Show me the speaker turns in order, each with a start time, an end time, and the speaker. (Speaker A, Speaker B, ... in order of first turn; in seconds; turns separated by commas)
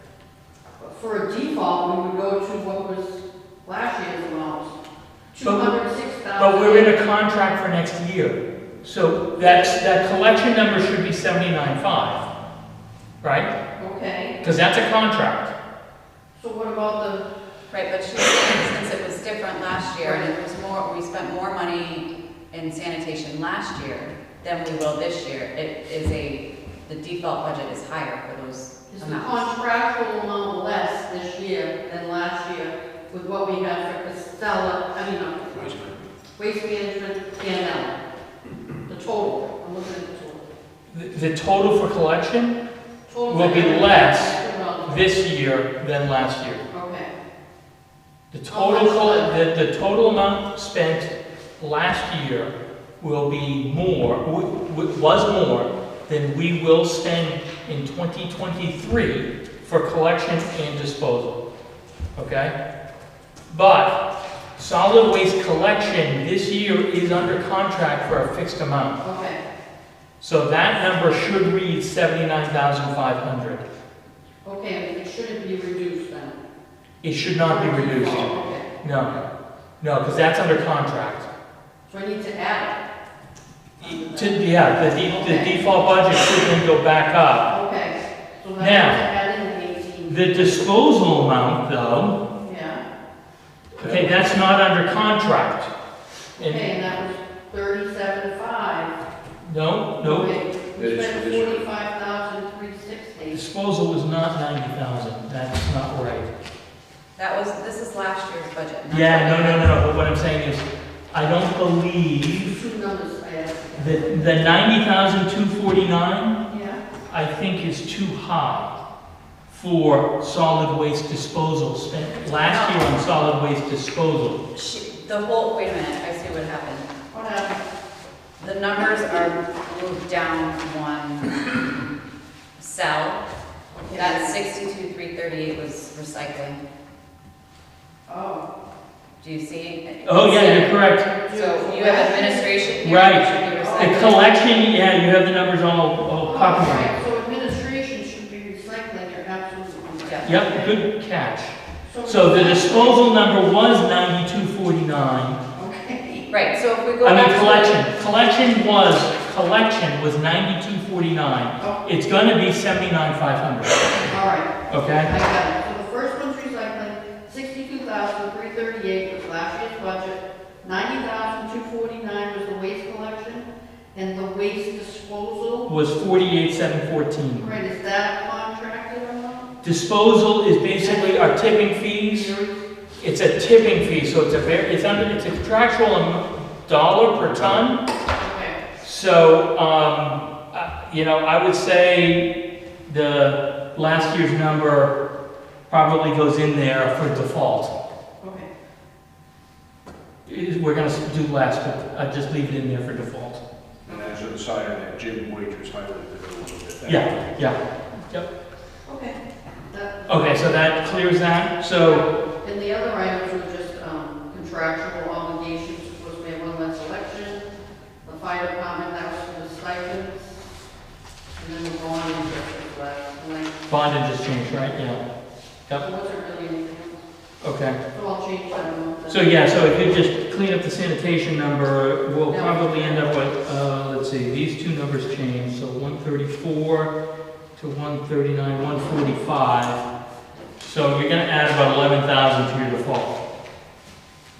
Speaker A: 0.8-4.7, Speaker A: 5.3-7.0, Speaker B: 5.4-5.8, Speaker B: 6.3-12.3, Speaker A: 9.4-9.8, Speaker B: 13.2-13.5, Speaker A: 13.8-14.4, Speaker B: 14.4-15.5, Speaker A: 16.3-17.3, Speaker C: 17.7-29.4, Speaker A: 20.0-20.3, Speaker A: 28.9-35.7, Speaker D: 35.5-35.9, Speaker A: 36.4-37.9, Speaker A: 38.9-40.5, Speaker B: 40.9-42.6, Speaker A: 43.1-45.1, Speaker B: 43.2-46.6, Speaker A: 46.7-47.1, Speaker B: 48.3-61.4, Speaker A: 48.5-49.4, Speaker B: 62.1-62.5, Speaker B: 63.5-64.0, Speaker B: 64.5-69.0, Speaker A: 69.0-69.4, Speaker B: 70.2-73.6, Speaker A: 74.4-76.4, Speaker B: 77.0-79.2, Speaker A: 77.4-78.7, Speaker B: 79.8-81.3, Speaker A: 81.9-82.8, Speaker A: 83.8-85.6, Speaker B: 83.8-87.5, Speaker A: 87.5-90.7, Speaker B: 88.6-89.0, Speaker B: 90.1-92.2, Speaker A: 92.4-92.8, Speaker B: 93.8-95.7, Speaker D: 93.8-94.3, Speaker B: 96.4-96.7, Speaker A: 96.4-98.9, Speaker B: 99.4-100.3, Speaker A: 100.0-103.4, Speaker D: 100.8-101.6, Speaker B: 103.3-106.3, Speaker C: 107.2-109.8, Speaker B: 108.9-112.6, Speaker A: 112.4-114.5, Speaker B: 113.8-116.4, Speaker A: 116.5-116.8, Speaker B: 117.1-118.7, Speaker B: 119.5-124.4, Speaker C: 122.4-122.9, Speaker C: 124.5-126.9, Speaker A: 127.1-127.6, Speaker C: 128.4-131.8, Speaker C: 132.6-133.2, Speaker A: 133.7-134.3, Speaker C: 133.9-136.6, Speaker A: 138.1-138.5, Speaker C: 139.2-144.6, Speaker B: 140.0-141.1, Speaker A: 141.0-142.7, Speaker B: 142.8-146.9, Speaker A: 143.4-144.1, Speaker A: 146.2-150.7, Speaker C: 150.0-150.4, Speaker B: 150.2-155.4, Speaker A: 151.8-153.2, Speaker A: 155.5-156.3, Speaker C: 156.3-157.8, Speaker B: 157.0-164.1, Speaker A: 161.6-161.8, Speaker A: 164.0-175.8, Speaker B: 164.7-165.1, Speaker B: 175.6-177.5, Speaker A: 177.3-179.5, Speaker B: 179.6-182.3, Speaker A: 180.8-182.7, Speaker B: 183.0-187.8, Speaker A: 188.2-188.6, Speaker B: 188.8-192.3, Speaker B: 192.9-194.9, Speaker B: 195.7-197.7, Speaker A: 198.2-198.5, Speaker B: 200.2-203.4, Speaker D: 203.8-207.3, Speaker B: 206.8-208.3, Speaker A: 208.8-210.7, Speaker B: 210.1-212.1, Speaker A: 211.8-217.5, Speaker A: 218.0-220.4, Speaker A: 221.3-223.6, Speaker B: 223.7-225.0, Speaker A: 225.8-227.0, Speaker B: 227.4-227.8, Speaker A: 227.9-229.3, Speaker B: 229.1-236.9, Speaker A: 232.3-233.1, Speaker B: 237.6-239.8, Speaker B: 240.6-243.2